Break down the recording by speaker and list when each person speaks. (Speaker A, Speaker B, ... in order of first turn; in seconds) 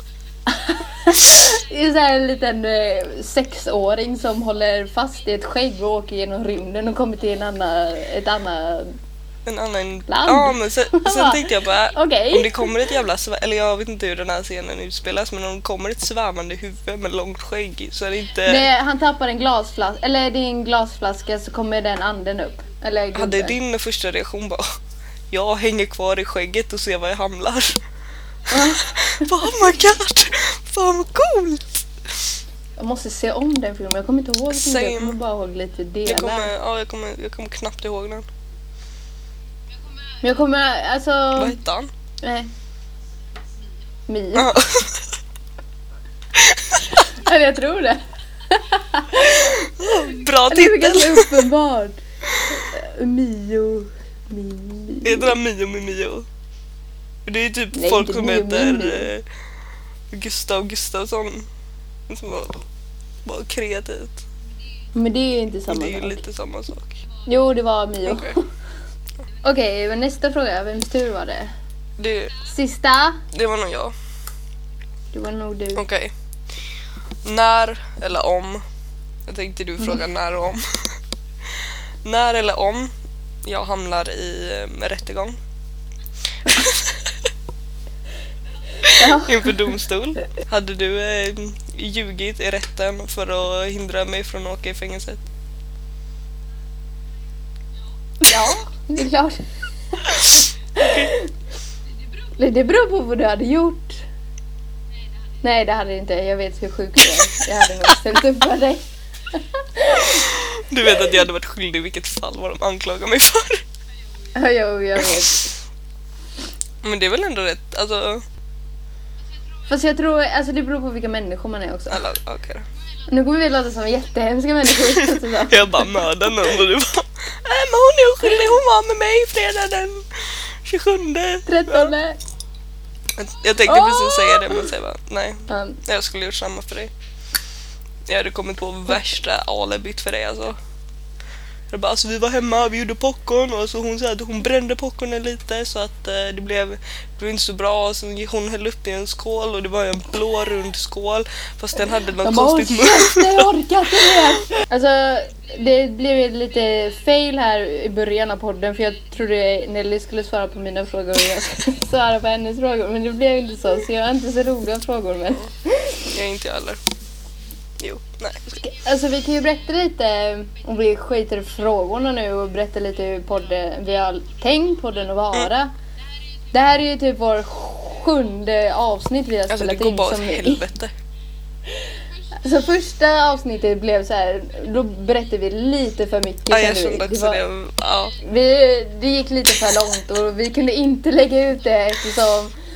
Speaker A: 0.5-8.9, 10.1-12.7, 18.4-23.6, 28.5-29.3, 32.8-36.5, 40.2-41.6, 42.2-42.5, 44.1-44.5, 47.1-49.8, 50.5-55.3, 57.7-59.1, 64.9-66.2, 67.2-68.4, 69.4-71.5, 72.5-73.2, 75.1-75.8, 88.9-89.7, 98.2-99.4, 99.9-101.3, 102.4-104.0, 105.4-110.3, 114.3-115.5, 119.7-122.0, 123.1-126.0, 131.4-132.2, 133.7-134.7, 135.5-135.8, 152.2-166.1, 168.6-175.7, 176.5-180.6, 182.4-187.4, 188.2-192.5
Speaker B: 9.4-18.7, 23.1-24.6, 25.3-27.8, 28.5-31.8, 34.5-35.2, 36.0-38.3, 41.4-41.9, 44.3-45.1, 46.3-46.8, 49.5-51.5, 55.0-56.2, 57.2-59.2, 60.1-61.5, 62.1-62.6, 63.2-64.2, 65.7-67.0, 68.0-68.3, 72.0-72.3, 73.3-73.9, 75.7-76.1, 77.2-78.6, 79.2-80.8, 82.0-82.9, 83.4-85.4, 86.4-87.1, 88.8-95.2, 100.8-101.1, 110.0-113.6, 116.8-118.2, 121.9-122.7, 124.8-131.9, 133.2-136.9, 138.1-140.6, 141.7-154.4, 166.1-166.8, 167.8-168.6, 179.5-180.9, 186.5-188.2